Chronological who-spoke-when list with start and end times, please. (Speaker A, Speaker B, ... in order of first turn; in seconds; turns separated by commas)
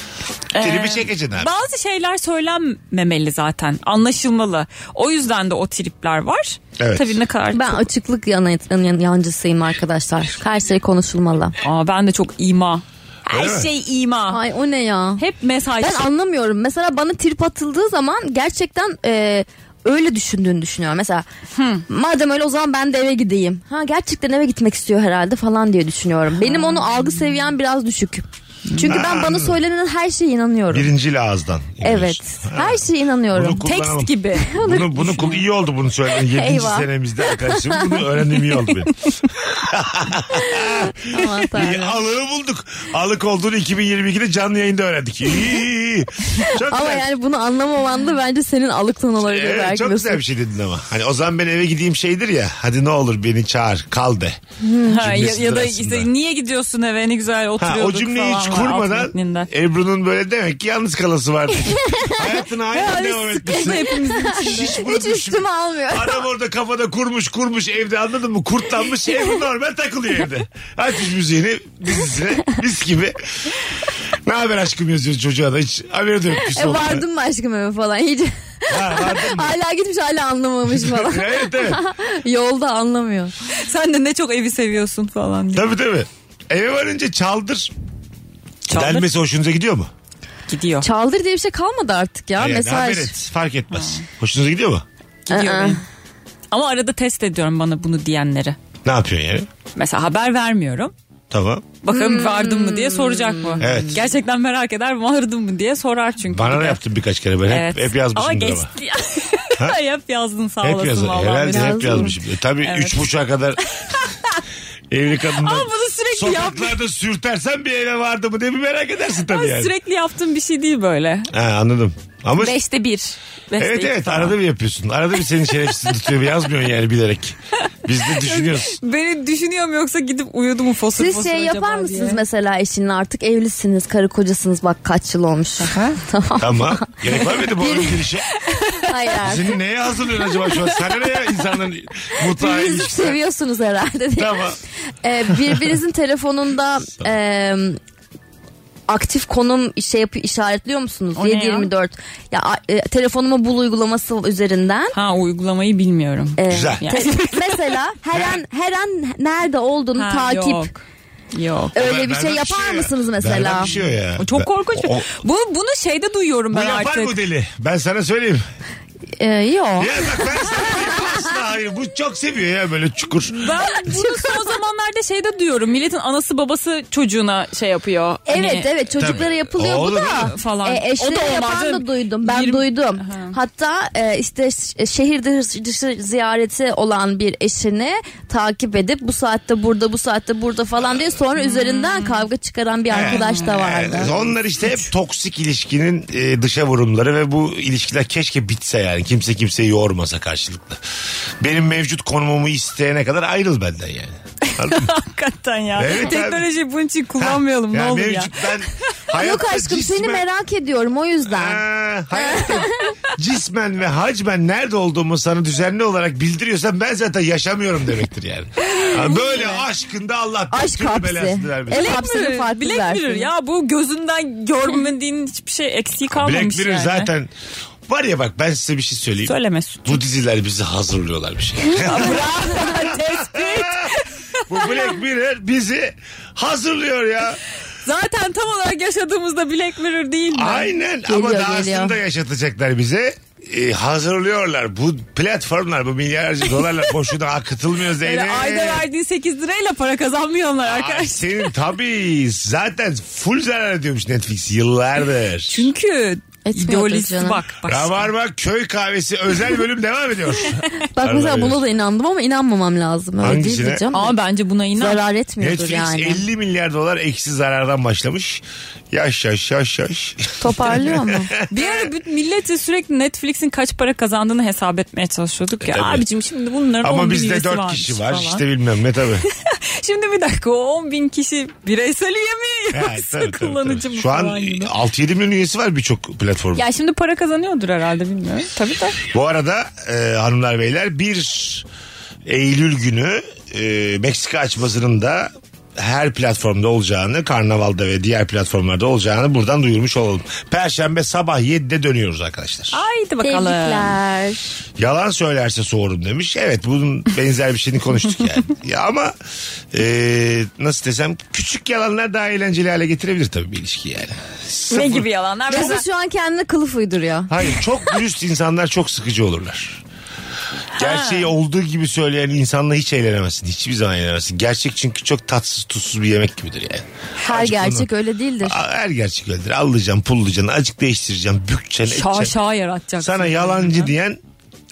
Speaker A: 0.5-7.8, Speaker B: 0.6-1.5, Speaker B: 6.8-7.2, Speaker C: 7.5-11.5, Speaker A: 11.6-14.4, Speaker B: 13.3-13.7, Speaker C: 14.3-15.2, Speaker A: 15.2-16.1, Speaker C: 15.8-21.2, Speaker A: 21.6-21.8, Speaker C: 21.9-28.2, Speaker A: 26.4-27.4, Speaker C: 28.8-30.9, Speaker B: 28.8-29.6, Speaker B: 30.7-47.1, Speaker C: 31.8-33.7, Speaker A: 33.6-35.4, Speaker C: 34.5-35.1, Speaker C: 36.2-38.0, Speaker C: 40.4-42.0, Speaker C: 46.6-50.2, Speaker B: 49.2-54.4, Speaker C: 54.6-55.0, Speaker A: 54.9-59.5, Speaker B: 55.0-56.1, Speaker B: 57.6-73.6, Speaker C: 62.0-62.2, Speaker A: 62.7-64.8, Speaker C: 63.6-66.2, Speaker B: 74.2-77.0, Speaker C: 76.3-83.3, Speaker B: 78.7-79.5, Speaker B: 80.7-81.8, Speaker A: 83.5-85.8, Speaker B: 85.5-87.7, Speaker A: 88.7-89.1, Speaker B: 88.7-89.9, Speaker A: 90.5-90.9, Speaker C: 90.8-93.1, Speaker B: 92.4-94.8, Speaker A: 93.7-94.0, Speaker A: 95.3-95.8, Speaker C: 95.3-95.8, Speaker A: 96.5-98.6, Speaker B: 98.8-99.5, Speaker A: 99.7-100.9, Speaker B: 101.3-101.7, Speaker A: 101.8-106.8, Speaker C: 101.9-103.8, Speaker B: 103.6-104.0, Speaker B: 106.3-108.7, Speaker A: 107.5-112.1, Speaker B: 110.6-113.6, Speaker C: 111.5-112.2, Speaker A: 112.6-113.0, Speaker A: 113.7-114.4, Speaker B: 114.9-119.7, Speaker A: 115.4-116.8, Speaker A: 119.3-121.3, Speaker B: 121.3-122.6, Speaker A: 122.4-124.4, Speaker B: 123.6-128.8, Speaker A: 128.1-132.2, Speaker C: 130.9-138.1, Speaker A: 135.6-136.0, Speaker B: 136.4-138.3, Speaker A: 138.5-138.8, Speaker C: 138.8-139.6, Speaker B: 139.2-143.2, Speaker C: 142.2-144.4, Speaker B: 144.2-144.6, Speaker C: 145.0-147.8, Speaker B: 145.4-145.7, Speaker C: 148.9-154.9, Speaker A: 151.2-151.7, Speaker A: 154.9-157.6, Speaker C: 156.4-160.7, Speaker B: 156.5-156.8, Speaker B: 158.1-158.4, Speaker A: 159.9-161.8, Speaker C: 161.7-163.7, Speaker B: 161.7-165.1, Speaker A: 164.2-167.2, Speaker B: 166.5-168.4, Speaker C: 169.2-171.1, Speaker B: 169.8-173.4, Speaker A: 173.3-179.1, Speaker C: 173.6-174.5, Speaker C: 178.3-194.2, Speaker B: 178.9-180.3, Speaker A: 179.8-183.3, Speaker A: 191.4-192.3, Speaker B: 192.9-200.8, Speaker A: 192.9-194.8, Speaker B: 201.4-204.9, Speaker A: 204.4-208.4, Speaker B: 205.8-206.5, Speaker B: 207.2-210.3, Speaker C: 209.1-211.6, Speaker B: 211.3-222.0, Speaker C: 212.1-212.9, Speaker A: 218.7-219.6, Speaker C: 220.5-223.3, Speaker A: 221.7-227.1, Speaker B: 226.1-227.3, Speaker B: 227.9-229.3, Speaker A: 229.2-230.0, Speaker B: 229.8-233.9, Speaker C: 231.8-232.6, Speaker A: 231.8-234.9, Speaker B: 234.5-237.4, Speaker A: 237.8-240.7, Speaker B: 240.3-248.9, Speaker C: 241.1-242.0, Speaker A: 246.5-246.8, Speaker A: 248.0-251.5, Speaker B: 250.6-255.7, Speaker A: 255.5-258.1, Speaker C: 256.4-257.4, Speaker B: 257.7-261.6, Speaker C: 260.9-264.2, Speaker B: 263.2-263.8, Speaker A: 263.9-265.0, Speaker C: 264.8-266.2, Speaker B: 265.4-271.9, Speaker C: 270.4-271.3, Speaker A: 271.5-278.4, Speaker B: 275.6-276.0, Speaker B: 276.8-279.3, Speaker A: 279.4-284.7, Speaker B: 282.7-286.6, Speaker A: 286.6-289.0, Speaker B: 289.1-291.7, Speaker B: 292.3-302.8, Speaker A: 302.7-303.9, Speaker C: 303.2-304.5, Speaker B: 304.8-309.1, Speaker B: 309.7-315.1, Speaker A: 314.7-315.8, Speaker C: 315.5-317.3, Speaker B: 317.3-319.8, Speaker B: 320.7-327.9, Speaker A: 320.8-321.3, Speaker C: 327.2-328.6, Speaker B: 328.4-332.4, Speaker A: 331.9-333.9, Speaker B: 333.0-334.2